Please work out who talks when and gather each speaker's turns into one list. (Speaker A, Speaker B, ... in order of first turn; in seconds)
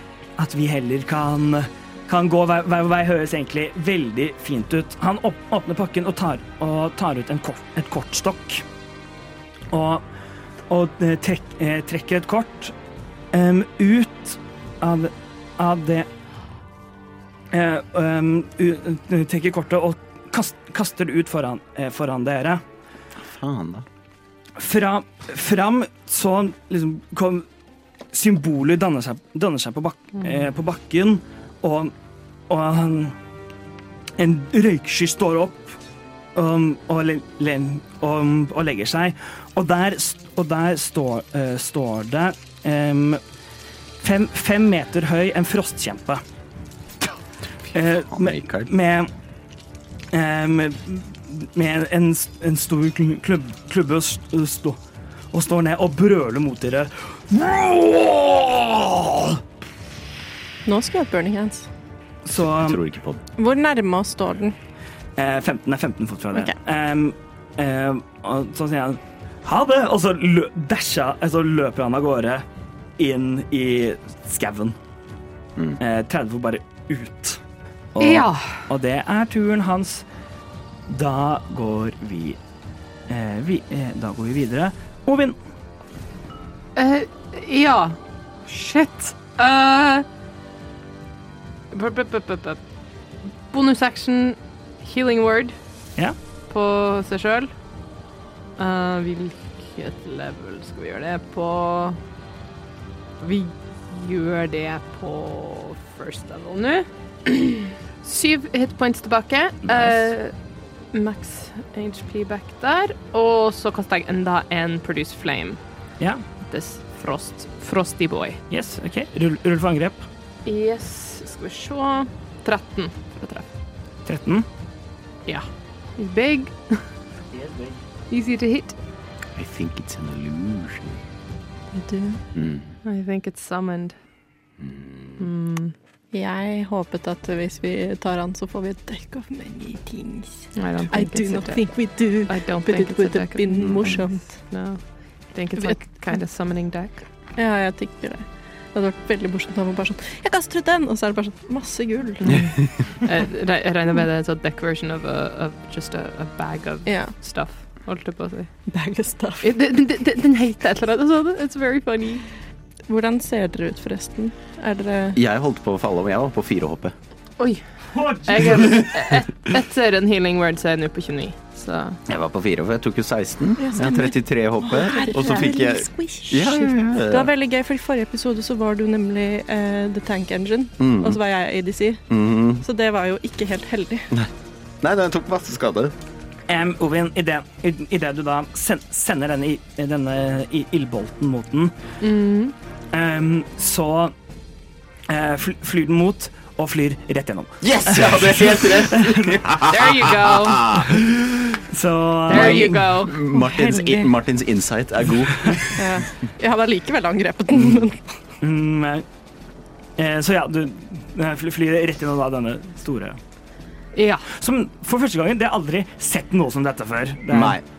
Speaker A: 0.4-8.6, 9.7-10.0, 10.7-12.7, 13.3-16.1, 17.5-22.6, 24.6-27.4, 28.1-31.9, 32.5-33.1, 34.2-35.8, 36.3-43.2, 44.0-46.2, 47.7-49.1, 50.1-54.8, 55.3-59.4, 62.2-62.8, 65.2-72.5, 73.0-74.8, 75.8-77.4, 77.9-80.0, 80.9-82.4, 83.1-85.3, 118.5-120.0, 124.0-124.5, 127.3-127.8, 167.9-168.8, 186.5-191.7, 192.9-194.1, 195.1-199.5, 200.8-203.0, 208.4-209.0, 210.0-213.2, 214.3-217.6
Speaker B: 23.3-23.8, 48.1-48.7, 62.6-63.2, 129.4-130.9, 132.3-132.6, 134.6-135.1, 165.1-166.9, 172.1-177.3, 180.8-181.2, 182.1-182.6, 184.8-185.9, 197.6-200.3, 202.3-205.9, 217.3-217.6
Speaker C: 60.6-61.7, 63.4-64.5, 131.7-132.2, 136.1-144.4, 147.3-152.7, 156.8-157.1, 158.7-159.5, 162.9-165.2, 173.6-182.1, 182.6-184.1, 203.2-204.1, 205.8-208.0
Speaker D: 78.0-78.5, 86.8-90.0, 91.7-92.6, 93.5-95.5, 96.5-97.5, 98.6-102.0, 103.2-110.3, 110.9-115.6, 116.5-118.4, 120.5-123.5, 126.0-126.8, 128.1-128.7, 132.8-133.9, 135.2-135.7, 140.5-144.8, 145.3-147.0, 153.0-158.5, 159.4-162.2, 168.2-172.0, 192.0-192.5, 199.6-200.8, 202.3-203.2, 213.9-214.2